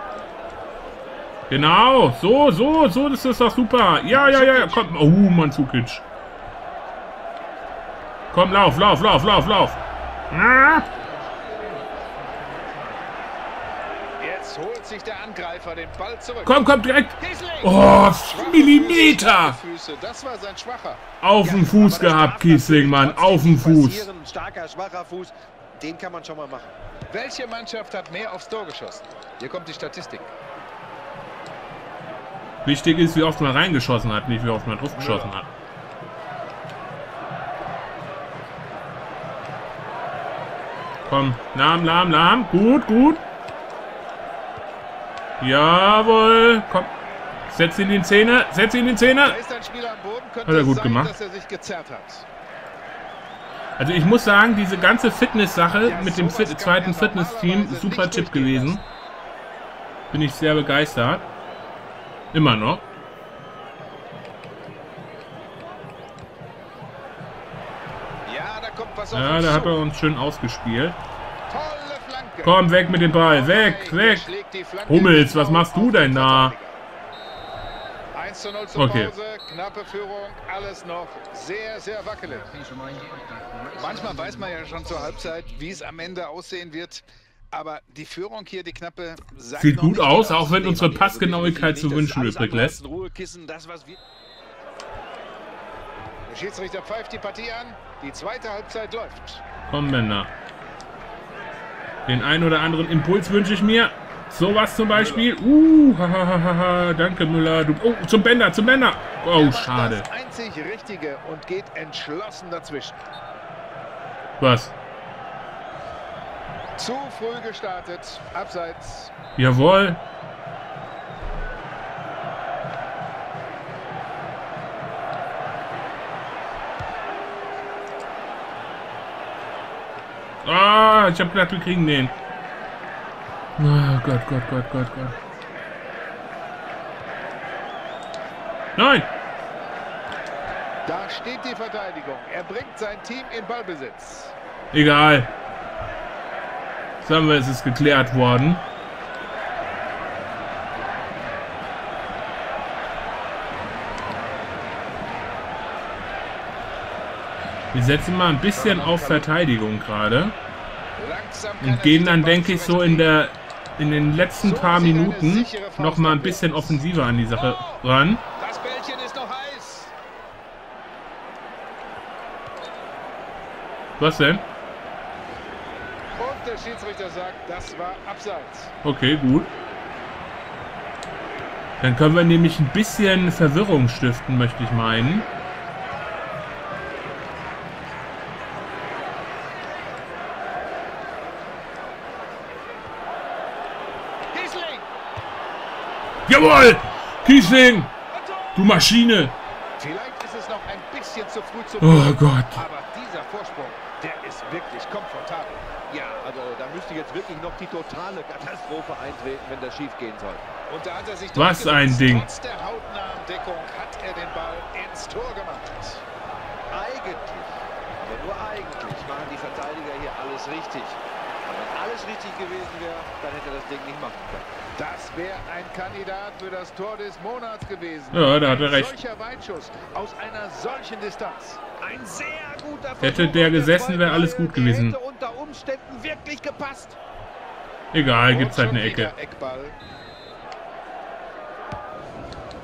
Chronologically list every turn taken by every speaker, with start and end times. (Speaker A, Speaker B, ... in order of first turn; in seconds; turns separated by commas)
Speaker A: 1.5-6.0, Speaker B: 4.1-4.9, Speaker A: 8.3-9.8, Speaker A: 10.3-10.8, Speaker C: 11.5-11.9, Speaker B: 14.2-16.6, Speaker A: 16.4-19.6, Speaker B: 17.1-21.0, Speaker A: 21.2-24.1, Speaker C: 21.4-26.7, Speaker B: 27.1-30.3, Speaker A: 32.6-35.5, Speaker B: 34.9-35.3, Speaker A: 41.0-43.2, Speaker A: 45.4-46.9, Speaker A: 47.5-49.4, Speaker B: 49.2-52.2, Speaker A: 50.4-51.1, Speaker A: 53.8-58.8, Speaker B: 55.8-58.8, Speaker A: 60.1-61.3, Speaker A: 62.3-62.8, Speaker B: 68.2-69.8, Speaker A: 69.1-71.0, Speaker B: 71.5-76.8, Speaker A: 72.4-74.3, Speaker A: 74.9-76.5, Speaker B: 78.1-82.5, Speaker A: 78.7-79.1, Speaker C: 83.0-83.6, Speaker B: 83.7-90.8, Speaker A: 89.6-92.8, Speaker C: 90.5-94.0, Speaker B: 96.3-99.4, Speaker A: 99.7-100.3, Speaker A: 102.0-110.0, Speaker B: 104.9-105.3, Speaker B: 109.3-113.0, Speaker A: 114.4-114.7, Speaker B: 116.8-119.1, Speaker A: 119.3-120.0, Speaker A: 130.4-132.1, Speaker A: 133.6-135.2, Speaker A: 138.8-139.1, Speaker B: 140.8-144.3, Speaker A: 144.7-145.3, Speaker A: 147.0-148.6, Speaker A: 157.7-160.3, Speaker B: 158.5-159.3, Speaker B: 161.0-163.1, Speaker A: 161.6-168.2, Speaker B: 164.3-167.8, Speaker B: 168.4-169.9, Speaker A: 174.0-174.4, Speaker B: 176.2-178.7, Speaker A: 178.8-179.5, Speaker A: 181.8-185.3, Speaker B: 194.3-194.9, Speaker A: 196.3-197.9, Speaker B: 198.1-198.8, Speaker A: 198.5-199.3, Speaker B: 199.8-205.7, Speaker A: 201.8-202.6, Speaker C: 205.9-210.4, Speaker B: 210.7-216.0, Speaker A: 211.3-212.3, Speaker C: 216.7-224.5, Speaker B: 224.8-231.7, Speaker A: 228.1-228.9, Speaker C: 231.8-237.0, Speaker A: 233.0-234.9, Speaker A: 237.9-239.1, Speaker B: 238.2-239.8